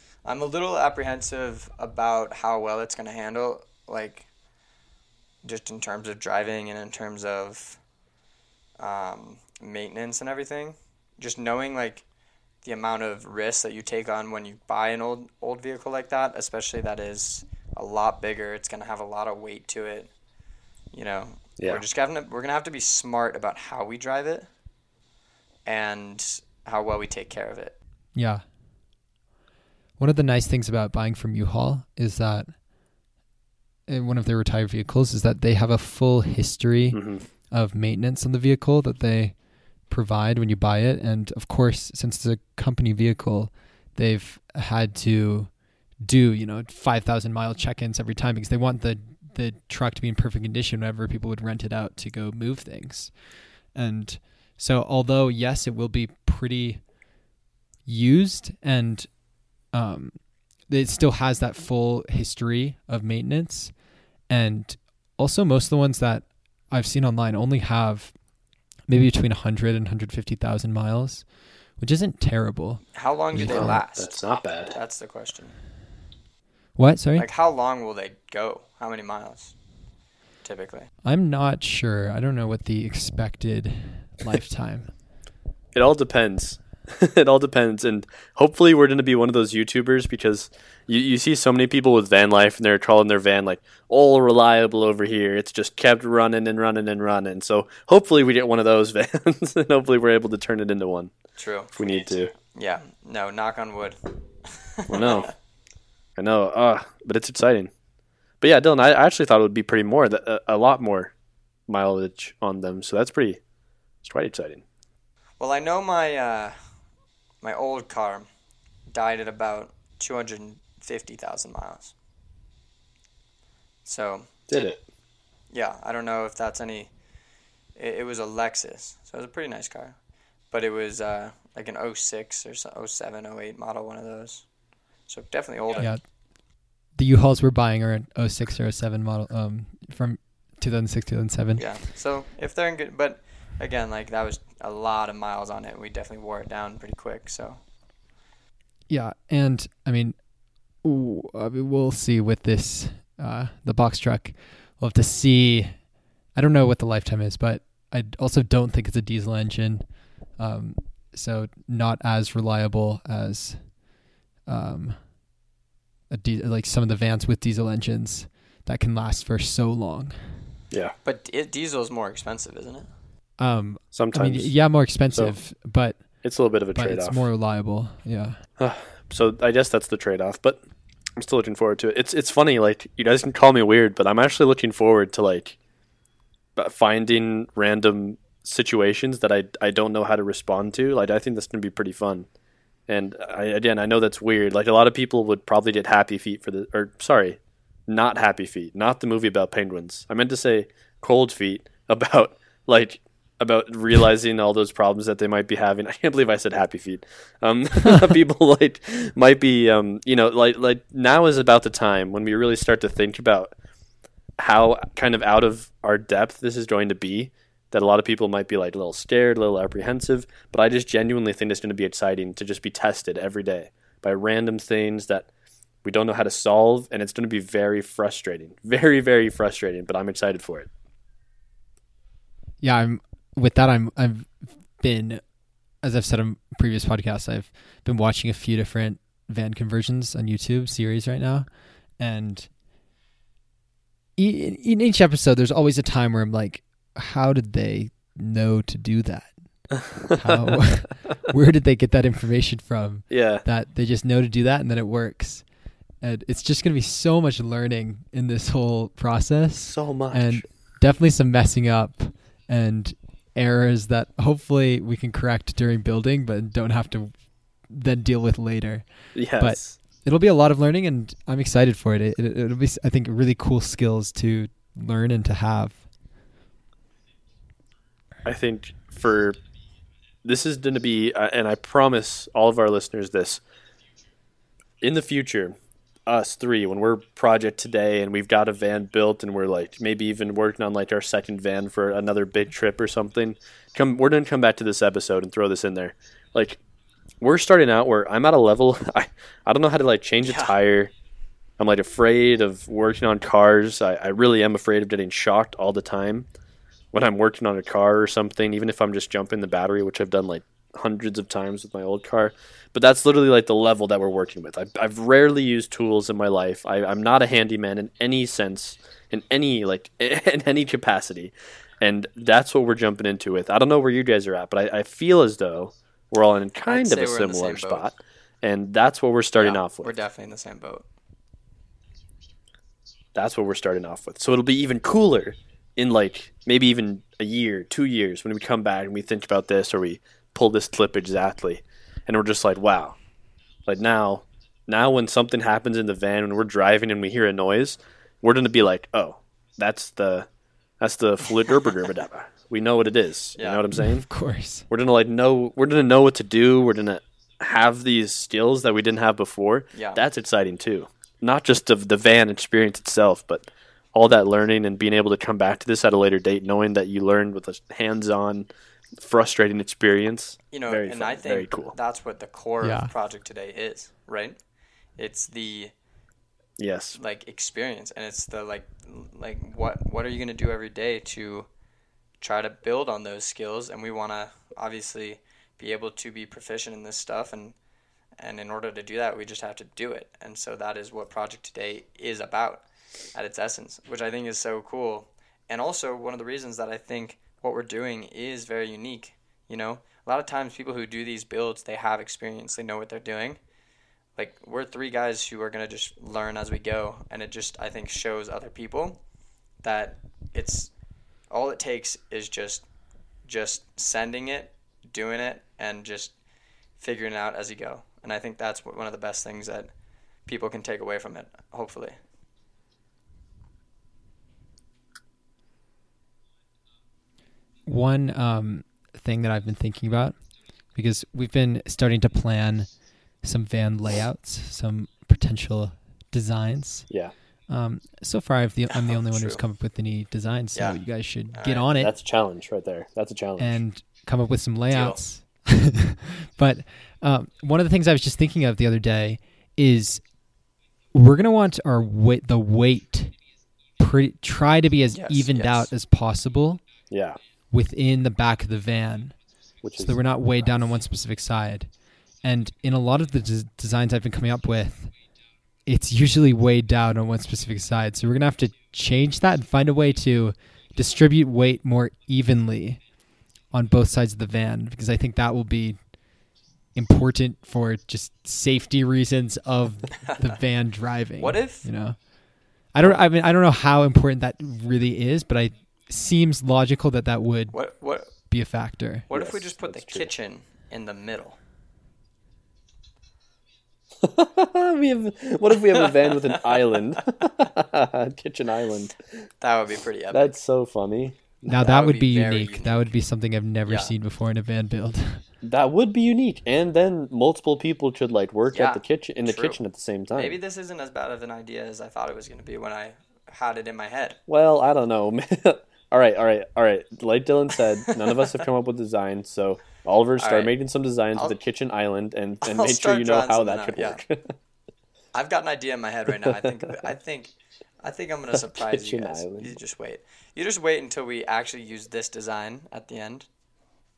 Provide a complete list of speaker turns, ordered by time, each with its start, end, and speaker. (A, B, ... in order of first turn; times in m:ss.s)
0:00.2-0:04.3 A
0:05.4-0:07.8 A
0:08.8-0:12.0 A
0:12.6-0:20.1 A
0:20.9-0:24.5 A
0:21.6-0:21.8 B
0:25.6-0:27.8 A
0:28.1-0:28.4 C
0:30.0-0:32.6 C
0:33.9-0:57.0 C
0:36.9-0:37.2 B
0:57.9-1:08.2 C
1:08.9-1:13.8 C
1:13.0-1:15.6 A
1:13.4-1:14.8 B
1:16.8-1:17.3 C
1:17.2-1:19.6 A
1:20.4-1:20.9 A
1:21.0-1:25.0 C
1:25.7-1:41.1 B
1:41.4-1:45.3 A
1:41.7-1:42.3 B
1:44.9-1:45.3 B
1:46.2-1:47.7 B
1:48.4-1:51.1 B
1:51.7-1:53.4 B
1:54.0-1:54.6 B
1:55.4-1:56.6 A
1:57.4-1:58.3 A
1:58.9-2:01.9 A
2:03.8-2:04.4 A
2:04.5-2:04.8 B
2:05.5-2:06.9 A
2:07.8-2:10.0 A
2:10.5-2:14.5 A
2:15.0-2:15.9 A
2:15.8-2:21.8 C
2:21.6-2:27.6 A
2:28.9-2:43.8 C
2:44.4-2:45.2 C
2:46.1-2:50.6 C
2:50.7-2:51.0 B
2:51.0-2:52.9 A
2:53.4-2:58.4 C
2:53.9-2:57.3 B
2:58.6-3:00.6 B
3:01.2-3:05.6 B
3:06.6-3:12.3 B
3:12.9-3:33.6 B
3:34.4-3:45.3 B
3:45.8-3:50.7 B
3:52.6-4:02.5 C
4:04.2-4:35.9 C
4:13.1-4:13.4 B
4:19.6-4:20.5 B
4:29.1-4:29.8 B
4:38.2-4:39.4 B
4:40.2-4:43.4 B
4:44.8-4:56.6 B
4:57.2-5:00.9 B
5:00.2-5:00.5 A
5:01.6-5:06.3 B
5:06.9-5:29.9 B
5:26.7-5:27.9 A
5:29.4-5:30.9 A
5:33.2-5:43.0 B
5:43.7-5:50.3 B
5:50.8-5:54.1 B
5:53.4-5:53.6 A
5:53.7-5:54.7 C
5:54.7-6:08.5 B
5:59.7-6:00.0 A
6:09.0-6:11.8 B
6:10.5-6:14.4 A
6:12.6-6:12.9 C
6:15.0-6:15.7 A
6:16.6-6:17.0 B
6:17.0-6:21.5 A
6:22.2-6:27.6 A
6:28.2-6:43.4 A
6:44.2-6:49.0 A
6:49.6-6:50.7 A
6:51.3-6:52.7 A
6:53.2-6:56.1 A
6:56.8-6:59.7 A
7:00.3-7:02.0 A
7:07.7-7:16.9 C
7:17.5-7:21.9 C
7:18.7-7:19.4 A
7:20.6-7:21.7 A
7:21.8-7:23.6 B
7:23.4-7:30.2 C
7:24.7-7:25.0 A
7:30.9-7:33.2 C
7:33.8-7:36.6 C
7:34.9-7:35.7 A
7:36.9-7:37.2 B
7:37.5-7:39.2 C
7:39.6-7:40.7 B
7:39.8-7:44.9 C
7:45.7-7:52.9 C
7:53.5-8:09.1 C
8:01.2-8:01.7 A
8:07.5-8:08.3 A
8:09.1-8:11.4 A
8:09.1-8:10.1 B
8:14.0-8:19.3 B
8:16.1-8:16.6 A
8:19.4-8:20.3 A
8:20.1-8:21.6 B
8:21.5-8:25.2 C
8:21.5-8:22.9 A
8:23.7-8:23.9 A
8:25.4-8:30.4 B
8:28.5-8:29.6 A
8:30.1-8:34.2 A
8:34.3-8:44.3 B
8:40.2-8:40.5 A
8:42.4-8:44.0 A
8:45.1-8:53.3 A
8:46.2-8:46.7 B
8:48.3-8:49.6 B